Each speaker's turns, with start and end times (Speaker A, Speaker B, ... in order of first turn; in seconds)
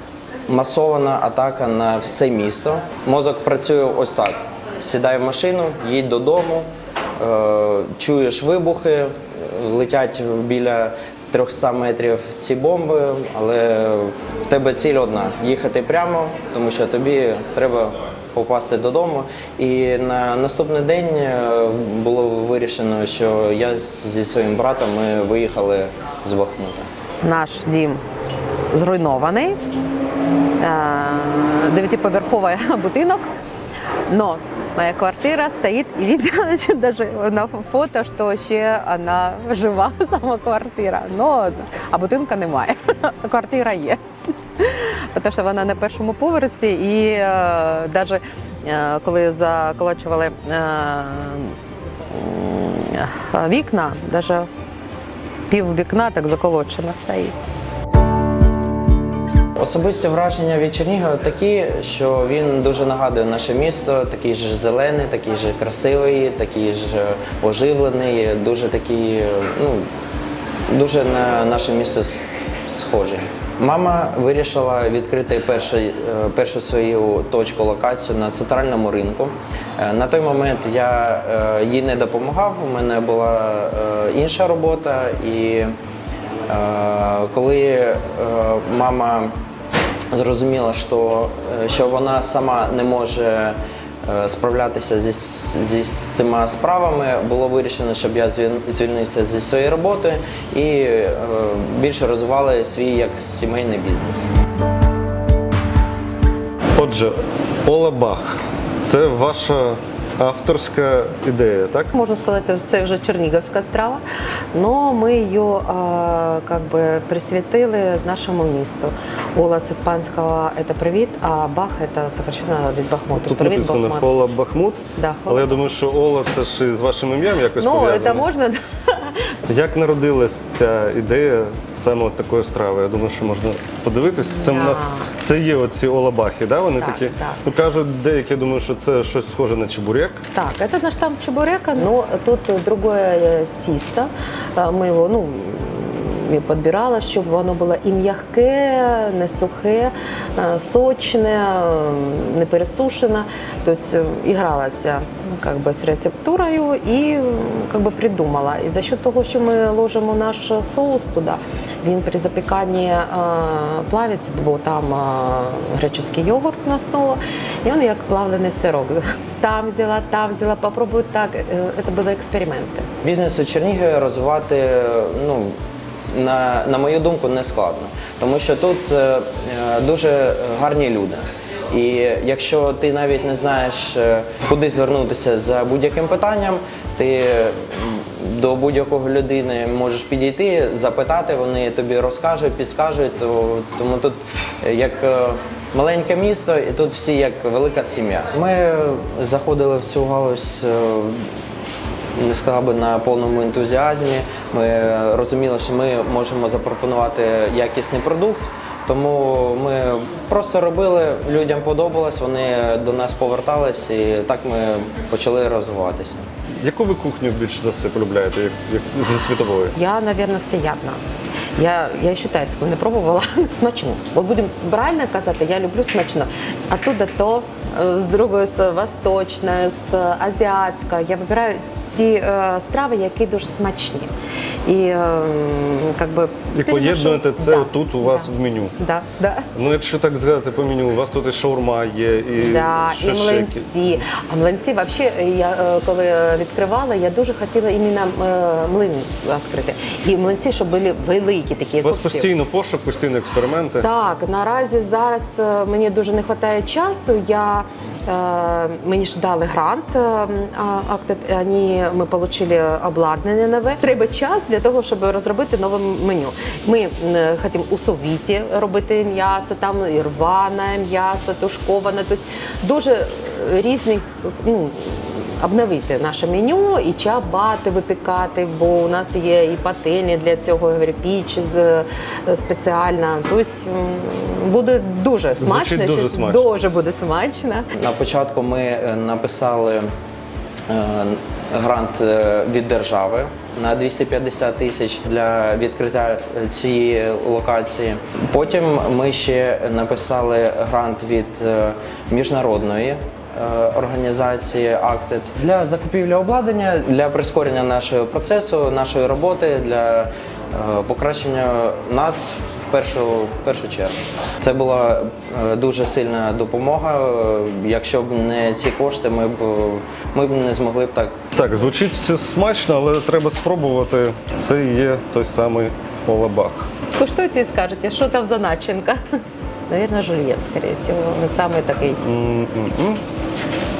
Speaker A: 0.5-26.9, 59.6-69.8, 70.7-85.7, 86.5-89.3, 90.1-104.3, 173.0-175.5, 176.1-201.2, 202.1-216.2, 287.7-289.9, 290.7-321.2
Speaker B: 27.2-28.0, 28.7-29.6, 30.6-33.3, 34.1-51.5, 52.1-54.5, 55.5-57.4, 111.9-124.3, 124.9-125.6, 127.5-129.3, 134.1-135.1, 136.7-137.4, 140.3-172.9, 219.7-221.0, 221.6-234.1, 234.6-239.5, 242.4-252.3, 253.8-287.7, 326.8-329.0, 329.7-332.0
Speaker C: 106.8-111.9, 123.2-128.3, 129.5-140.2, 216.6-219.7, 236.5-238.7, 239.5-243.7, 251.8-253.9, 285.4-286.5, 321.3-326.7, 332.0-333.0